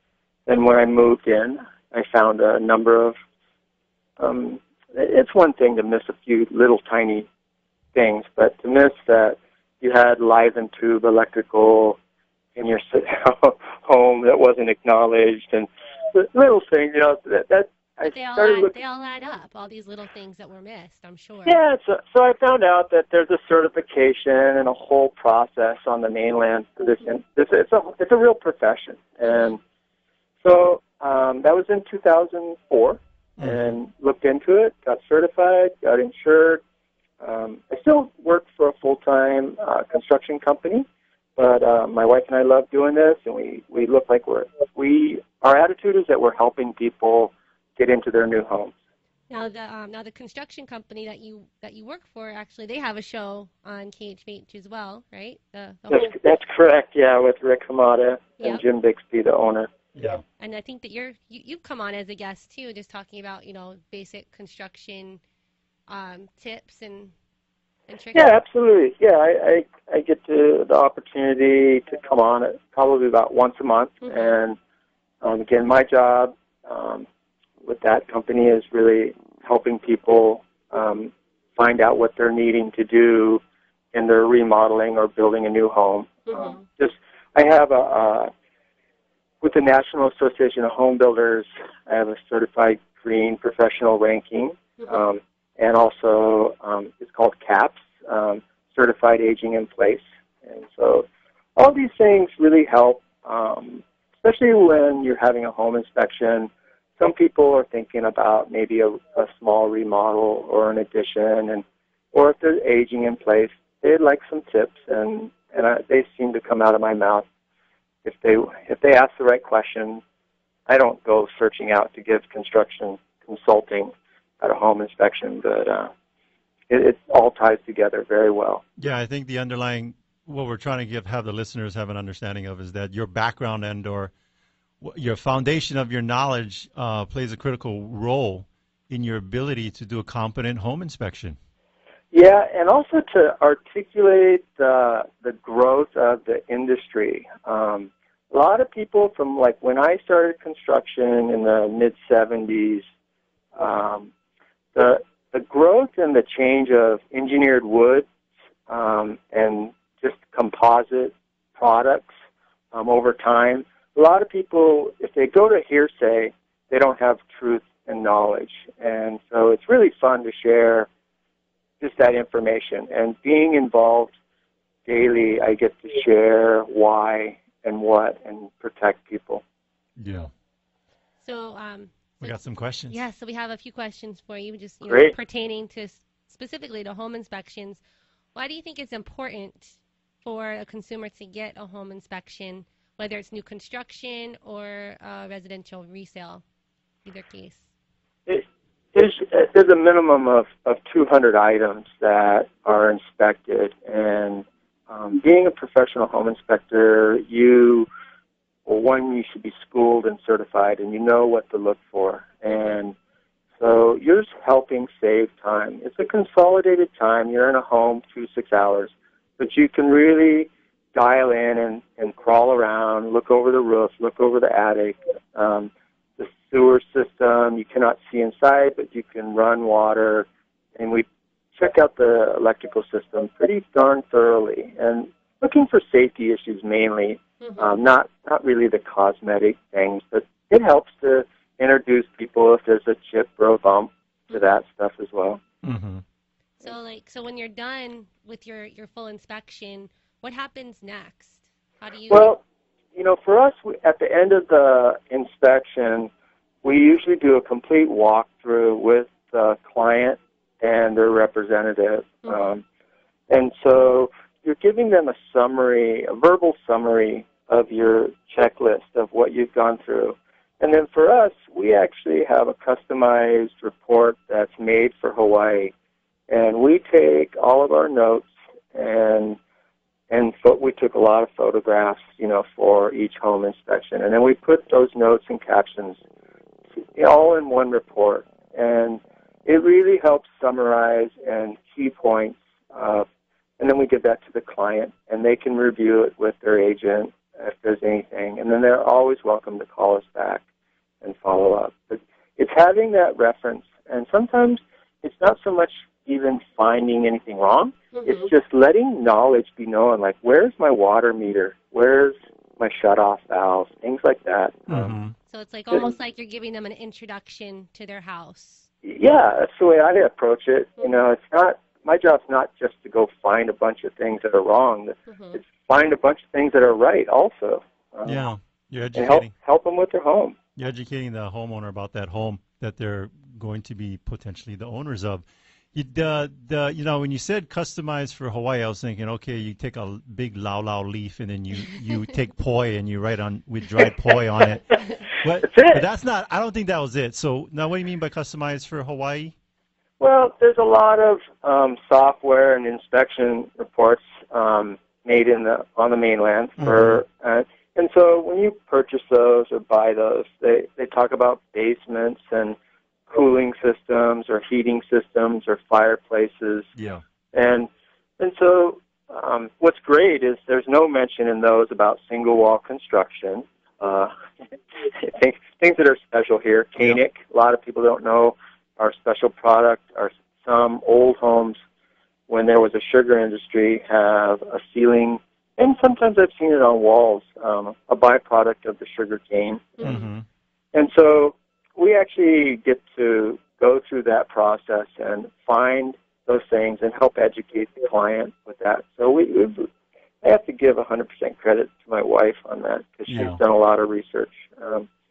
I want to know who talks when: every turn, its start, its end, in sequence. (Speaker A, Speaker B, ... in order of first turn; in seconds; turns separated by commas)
Speaker A: 0.5-3.1, Speaker A: 4.2-7.3, Speaker A: 7.9-12.0, Speaker A: 12.6-18.7, Speaker B: 18.0-21.6, Speaker A: 21.4-29.6, Speaker B: 29.2-29.5, Speaker A: 30.4-36.6, Speaker C: 33.4-33.7, Speaker A: 37.2-40.9, Speaker A: 41.4-48.7, Speaker B: 49.3-56.1, Speaker A: 55.9-59.7, Speaker C: 59.9-60.2, Speaker B: 60.4-65.2, Speaker B: 65.9-67.1, Speaker B: 67.9-68.4, Speaker A: 68.1-74.6, Speaker B: 74.0-74.3, Speaker A: 75.2-77.0, Speaker A: 77.6-83.4, Speaker A: 83.9-88.3, Speaker B: 86.3-86.6, Speaker A: 89.4-117.2, Speaker A: 118.0-120.0, Speaker A: 120.7-125.9, Speaker A: 126.7-128.6, Speaker C: 128.8-134.1, Speaker C: 134.8-141.4, Speaker A: 142.1-152.8, Speaker A: 153.6-154.1, Speaker A: 154.7-158.1, Speaker A: 158.7-162.1, Speaker A: 162.7-170.9, Speaker A: 171.8-174.1, Speaker A: 174.8-179.4, Speaker C: 180.0-180.3, Speaker B: 181.2-182.4, Speaker C: 182.2-183.0, Speaker B: 182.9-187.8, Speaker A: 184.9-185.1, Speaker B: 188.3-196.4, Speaker B: 197.0-197.6, Speaker A: 198.3-207.9, Speaker A: 208.7-212.9, Speaker A: 213.6-245.4, Speaker B: 237.4-237.7, Speaker C: 245.6-246.0, Speaker B: 246.6-252.3, Speaker A: 252.1-252.4, Speaker A: 252.9-256.1, Speaker A: 256.6-262.6, Speaker A: 263.3-275.7, Speaker A: 276.3-279.4, Speaker A: 280.1-286.0, Speaker A: 286.9-293.1, Speaker A: 293.6-300.4, Speaker A: 301.0-314.9, Speaker B: 307.9-308.3, Speaker C: 314.7-315.1, Speaker B: 315.3-318.7, Speaker A: 318.8-328.2, Speaker B: 325.1-325.4, Speaker C: 328.0-329.3, Speaker A: 328.9-330.4, Speaker C: 330.6-349.3, Speaker A: 345.4-345.8, Speaker A: 350.0-362.6, Speaker C: 356.6-357.0, Speaker A: 363.1-366.7, Speaker C: 366.8-367.0, Speaker A: 367.3-374.1, Speaker A: 374.8-381.6, Speaker A: 382.3-389.9, Speaker B: 389.8-390.1, Speaker C: 389.8-390.2, Speaker A: 390.7-399.7, Speaker A: 400.2-404.9, Speaker C: 403.1-403.4